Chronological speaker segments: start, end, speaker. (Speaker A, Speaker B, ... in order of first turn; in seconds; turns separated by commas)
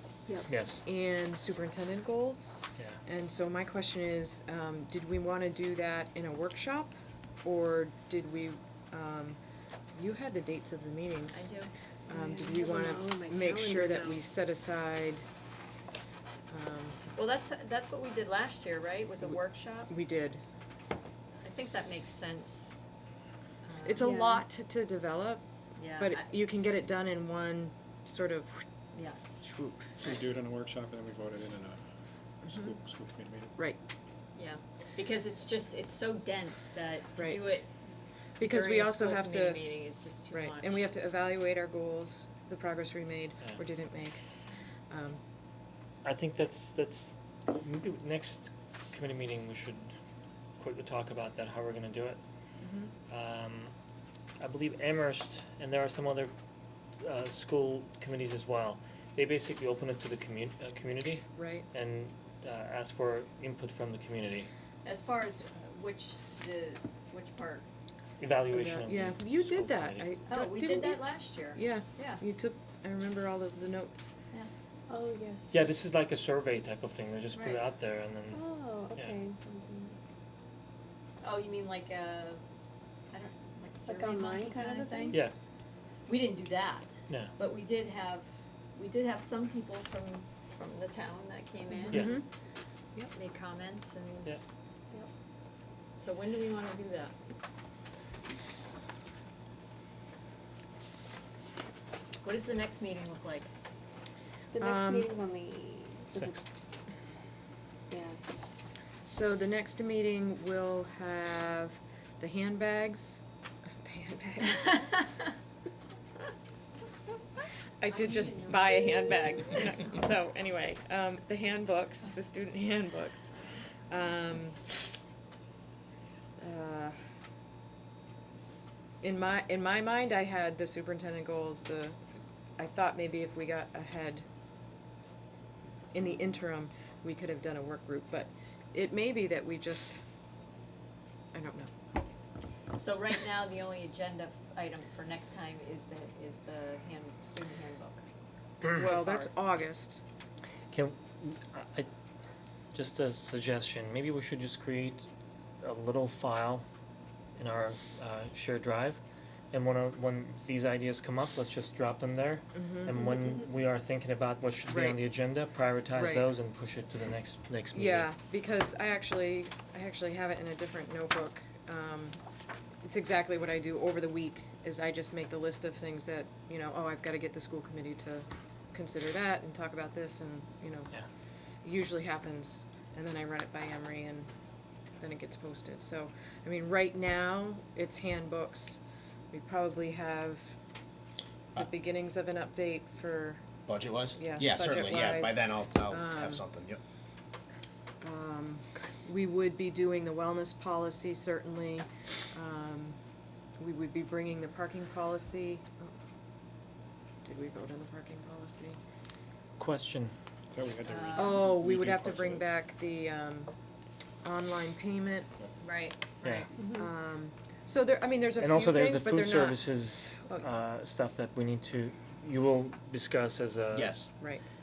Speaker A: 0.5-0.8, Speaker B: 0.8-9.4, Speaker B: 9.9-11.5, Speaker C: 11.3-11.7, Speaker D: 12.1-14.3, Speaker B: 12.1-15.2, Speaker B: 16.5-17.0, Speaker C: 17.1-19.9, Speaker B: 19.9-20.4, Speaker C: 21.4-22.7, Speaker C: 23.6-24.1, Speaker B: 23.8-25.4, Speaker D: 24.0-24.4, Speaker C: 25.8-26.3, Speaker B: 26.0-28.7, Speaker B: 29.4-30.0, Speaker E: 30.0-31.8, Speaker E: 32.4-33.5, Speaker B: 32.5-32.7, Speaker C: 34.4-37.7, Speaker B: 37.2-37.6, Speaker B: 38.4-39.6, Speaker C: 38.4-40.9, Speaker B: 40.3-44.2, Speaker B: 44.9-45.2, Speaker A: 46.0-49.9, Speaker A: 50.6-52.2, Speaker B: 52.6-52.9, Speaker A: 53.1-53.7, Speaker A: 54.4-56.3, Speaker A: 57.0-64.5, Speaker B: 61.4-61.7, Speaker C: 64.8-67.7, Speaker A: 68.2-70.1, Speaker B: 68.5-71.0, Speaker C: 70.3-72.2, Speaker B: 71.5-74.1, Speaker D: 74.9-75.5, Speaker A: 75.5-79.2, Speaker C: 77.3-77.6, Speaker D: 78.3-80.0, Speaker C: 81.2-82.4, Speaker C: 83.1-85.2, Speaker D: 83.8-85.2, Speaker C: 86.1-92.2, Speaker A: 87.1-87.3, Speaker B: 91.9-92.3, Speaker A: 91.9-92.2, Speaker C: 93.1-94.3, Speaker C: 95.9-97.2, Speaker C: 102.2-103.5, Speaker D: 104.5-106.5, Speaker B: 104.6-105.1, Speaker D: 107.9-108.2, Speaker B: 109.0-113.2, Speaker B: 113.8-115.0, Speaker B: 117.8-123.3, Speaker B: 123.9-124.6, Speaker B: 126.4-127.0, Speaker B: 129.0-134.3, Speaker B: 135.9-140.0, Speaker B: 141.3-141.7, Speaker C: 142.8-148.0, Speaker B: 148.7-150.0, Speaker A: 150.7-151.9, Speaker A: 152.7-155.1, Speaker A: 155.6-156.7, Speaker A: 157.4-159.0, Speaker A: 159.5-168.1, Speaker B: 162.6-162.9, Speaker B: 164.7-165.1, Speaker B: 166.0-166.3, Speaker B: 167.7-172.2, Speaker B: 172.8-180.9, Speaker B: 181.6-184.3, Speaker B: 185.0-188.8, Speaker B: 189.3-190.6, Speaker B: 191.6-193.5, Speaker F: 193.7-196.8, Speaker B: 194.2-196.4, Speaker B: 198.0-203.0, Speaker B: 203.6-205.9, Speaker B: 207.2-208.8, Speaker A: 209.6-210.1, Speaker E: 210.5-212.4, Speaker C: 210.8-211.6, Speaker B: 211.2-213.5, Speaker B: 214.2-215.3, Speaker C: 215.6-216.1, Speaker A: 216.2-216.5, Speaker B: 216.3-219.6, Speaker A: 218.4-224.0, Speaker F: 223.8-224.1